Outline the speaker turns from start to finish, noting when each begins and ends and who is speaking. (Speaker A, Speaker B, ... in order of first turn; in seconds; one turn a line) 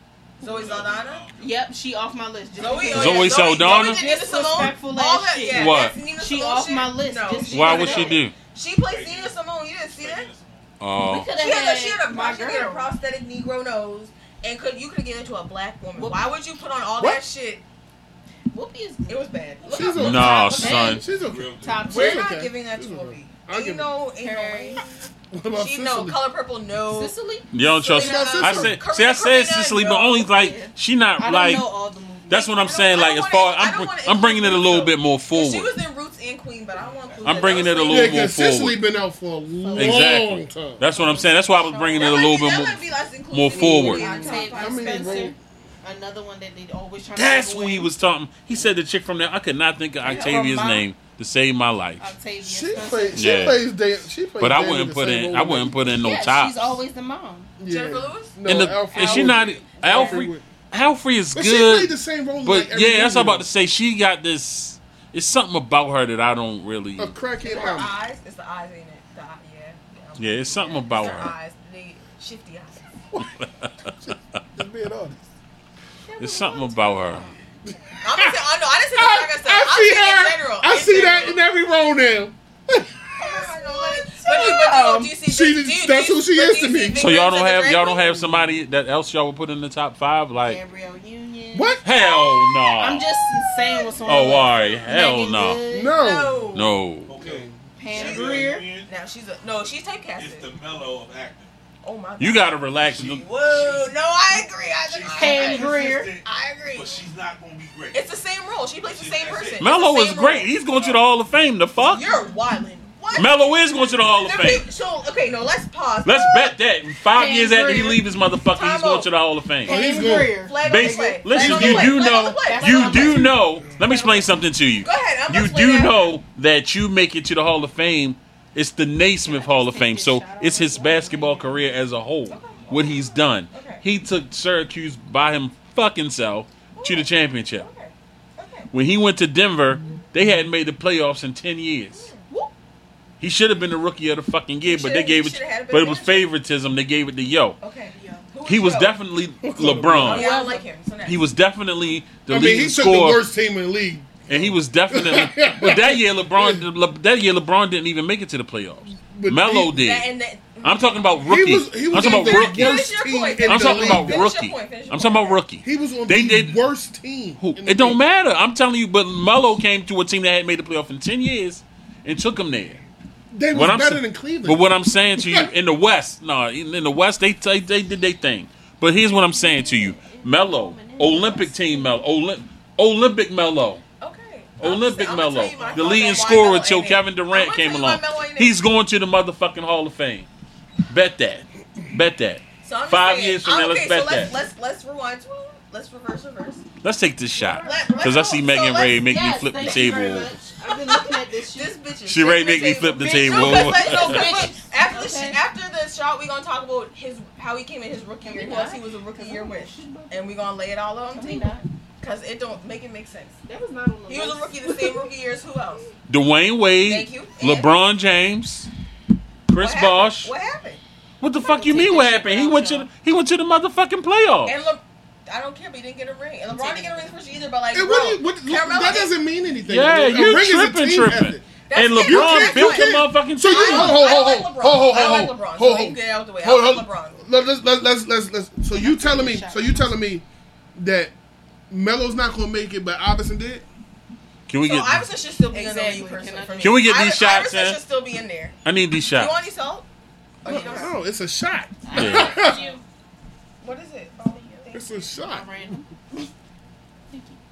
Speaker A: 0.4-1.2
Speaker B: 0.4-1.5
Speaker C: 1.4-8.2
Speaker A: 2.6-10.3
Speaker D: 2.9-4.0
Speaker D: 5.5-6.0
Speaker D: 7.5-8.3
Speaker B: 8.8-10.7
Speaker D: 10.8-11.3
Speaker C: 11.1-12.9
Speaker A: 11.4-17.6
Speaker C: 16.0-16.2
Speaker C: 18.5-19.3
Speaker A: 19.1-20.8
Speaker E: 19.7-23.9
Speaker C: 19.9-21.1
Speaker D: 19.9-21.1
Speaker B: 21.1-22.1
Speaker C: 21.6-22.2
Speaker A: 21.9-24.8
Speaker C: 24.2-25.1
Speaker E: 25.3-26.2
Speaker A: 25.6-27.2
Speaker C: 26.9-27.5
Speaker D: 27.5-31.7
Speaker A: 27.8-30.3
Speaker E: 27.9-28.8
Speaker C: 30.3-32.8
Speaker D: 32.3-35.7
Speaker A: 32.6-38.3
Speaker B: 36.8-37.9
Speaker D: 37.2-38.8
Speaker E: 37.9-40.9
Speaker A: 39.6-40.1
Speaker D: 39.8-44.3
Speaker A: 40.9-45.3
Speaker E: 43.5-45.4
Speaker C: 43.9-47.9
Speaker D: 47.2-52.1
Speaker A: 50.0-50.4
Speaker C: 50.0-50.9
Speaker C: 52.0-53.2
Speaker E: 52.4-55.9
Speaker D: 53.2-53.7
Speaker D: 54.4-56.7
Speaker C: 56.0-57.5
Speaker E: 57.6-60.5
Speaker A: 57.7-58.4
Speaker D: 58.5-61.9
Speaker C: 58.9-60.1
Speaker A: 59.9-60.2
Speaker E: 61.3-63.5
Speaker D: 62.4-67.2
Speaker E: 67.0-68.0
Speaker A: 67.4-72.9
Speaker D: 70.2-71.3
Speaker D: 73.4-73.7
Speaker E: 74.0-75.2
Speaker C: 76.1-77.3
Speaker D: 76.2-77.3
Speaker E: 77.7-87.1
Speaker A: 78.0-81.4
Speaker A: 83.2-88.2
Speaker D: 87.0-90.6
Speaker C: 90.4-91.8
Speaker E: 91.5-91.9
Speaker D: 91.8-93.1
Speaker A: 92.0-92.5
Speaker C: 92.8-96.0
Speaker D: 94.0-95.6
Speaker E: 95.7-96.5
Speaker A: 95.9-96.7
Speaker D: 96.5-97.2
Speaker B: 97.1-98.9
Speaker E: 97.2-97.6
Speaker C: 97.8-98.7
Speaker A: 97.9-100.5
Speaker B: 100.2-101.5
Speaker A: 101.8-107.1
Speaker D: 102.2-103.2
Speaker B: 103.0-103.9
Speaker B: 104.8-108.0
Speaker C: 105.1-106.1
Speaker A: 107.9-110.5
Speaker B: 108.8-109.6
Speaker D: 109.6-112.2
Speaker B: 110.5-111.0
Speaker A: 111.8-116.6
Speaker D: 113.1-114.7
Speaker D: 116.0-119.8
Speaker C: 117.1-118.0
Speaker A: 118.5-119.1
Speaker C: 119.7-123.4
Speaker E: 119.7-120.4
Speaker A: 120.1-124.3
Speaker D: 120.6-137.7
Speaker E: 121.3-122.0
Speaker A: 124.8-126.2
Speaker C: 129.2-131.8
Speaker A: 132.3-133.8
Speaker A: 136.8-138.7
Speaker D: 138.7-142.1
Speaker A: 141.9-142.2
Speaker D: 143.2-147.6
Speaker A: 144.7-146.3
Speaker A: 147.6-149.0
Speaker C: 147.9-148.3
Speaker D: 148.5-150.3
Speaker E: 149.4-150.2
Speaker A: 150.0-151.3
Speaker C: 150.1-150.7
Speaker D: 151.1-153.2
Speaker E: 152.3-156.7
Speaker D: 154.3-160.1
Speaker E: 158.9-159.8
Speaker A: 159.7-161.1
Speaker D: 160.6-162.9
Speaker E: 161.3-164.3
Speaker A: 161.9-165.4
Speaker D: 163.4-166.6
Speaker E: 165.6-168.0
Speaker D: 167.4-172.8
Speaker E: 173.3-174.7
Speaker D: 173.5-183.8
Speaker E: 175.2-175.5
Speaker C: 179.0-182.0
Speaker A: 184.0-188.6
Speaker D: 184.6-190.3
Speaker B: 185.5-186.2
Speaker D: 190.9-194.3
Speaker A: 192.6-196.7
Speaker D: 196.8-200.3
Speaker C: 197.4-198.3
Speaker A: 197.6-199.1
Speaker C: 199.0-201.8
Speaker A: 200.6-213.4
Speaker D: 202.1-204.5
Speaker C: 203.0-205.4
Speaker C: 208.2-210.3
Speaker C: 211.1-211.7
Speaker C: 213.5-215.1
Speaker A: 214.1-215.9
Speaker D: 216.1-218.7
Speaker A: 216.8-217.7
Speaker D: 219.5-220.3
Speaker A: 219.6-220.8
Speaker D: 221.2-224.6
Speaker C: 221.3-222.8
Speaker A: 222.2-222.8
Speaker A: 224.4-229.2
Speaker C: 226.5-227.2
Speaker E: 227.7-231.4
Speaker D: 229.7-234.1
Speaker A: 231.7-237.2
Speaker E: 232.0-241.1
Speaker C: 238.7-239.9
Speaker E: 241.7-243.7
Speaker D: 244.5-245.1
Speaker A: 244.6-248.6
Speaker C: 245.5-246.8
Speaker D: 246.6-247.8
Speaker D: 248.7-249.3
Speaker A: 249.1-249.9
Speaker A: 250.4-250.9
Speaker C: 250.5-250.9
Speaker E: 250.5-252.6
Speaker C: 251.8-252.8
Speaker D: 251.9-252.5
Speaker A: 253.6-255.1
Speaker E: 254.7-255.5
Speaker C: 255.2-256.3
Speaker C: 257.1-257.4